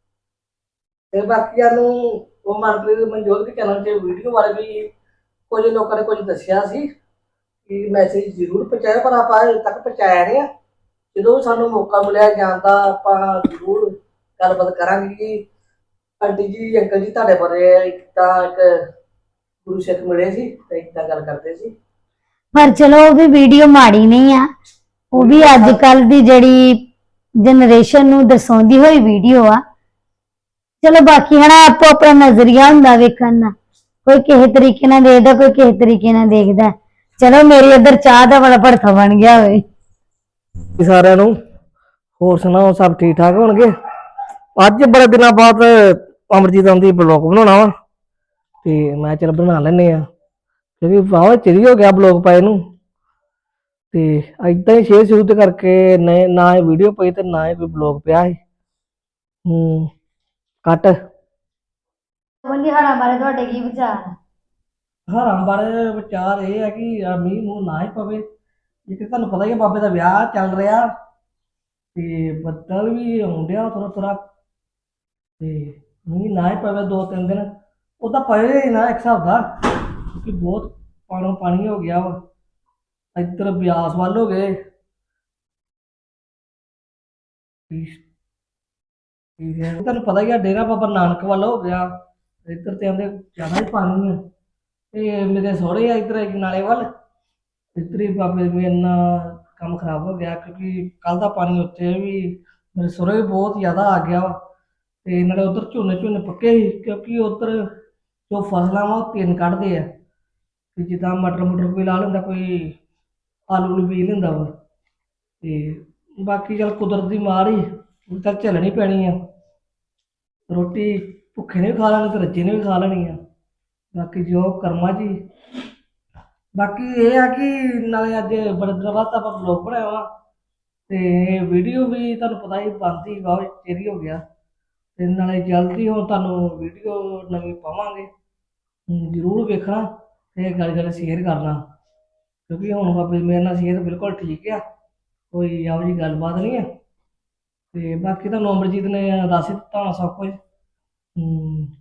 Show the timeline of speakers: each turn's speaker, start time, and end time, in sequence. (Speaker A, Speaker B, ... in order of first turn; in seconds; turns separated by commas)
Speaker A: 1.1-4.8, Speaker A: 5.5-6.8, Speaker A: 7.7-10.4, Speaker A: 11.1-13.8, Speaker A: 14.4-15.4, Speaker A: 16.2-18.7, Speaker A: 19.6-21.7, Speaker B: 22.6-24.4, Speaker B: 25.1-26.8, Speaker A: 25.2-25.8, Speaker B: 27.4-29.6, Speaker B: 30.8-33.5, Speaker B: 34.0-39.6, Speaker A: 40.8-41.3, Speaker A: 42.2-43.7, Speaker A: 44.6-47.7, Speaker A: 48.6-50.0, Speaker A: 50.8-52.6, Speaker A: 53.9-58.4, Speaker A: 59.5-59.9, Speaker A: 60.6-60.9, Speaker B: 62.5-64.1, Speaker A: 65.1-68.2, Speaker A: 68.9-70.8, Speaker A: 72.0-74.2, Speaker A: 75.4-77.5, Speaker A: 78.0-79.4, Speaker A: 80.2-82.2, Speaker A: 83.2-84.5, Speaker A: 87.7-88.0, Speaker A: 89.4-91.9, Speaker A: 92.5-94.2, Speaker A: 94.9-96.9, Speaker A: 97.8-104.3, Speaker A: 105.1-107.7, Speaker A: 108.3-109.9, Speaker A: 110.8-112.8, Speaker A: 113.5-114.5, Speaker A: 115.4-119.2, Speaker A: 120.5-123.2, Speaker A: 124.0-125.1, Speaker A: 126.6-130.1, Speaker A: 130.9-134.2, Speaker A: 135.0-138.1, Speaker A: 138.9-141.6, Speaker A: 142.5-144.6, Speaker A: 145.3-146.7, Speaker A: 147.7-150.4, Speaker A: 151.2-151.7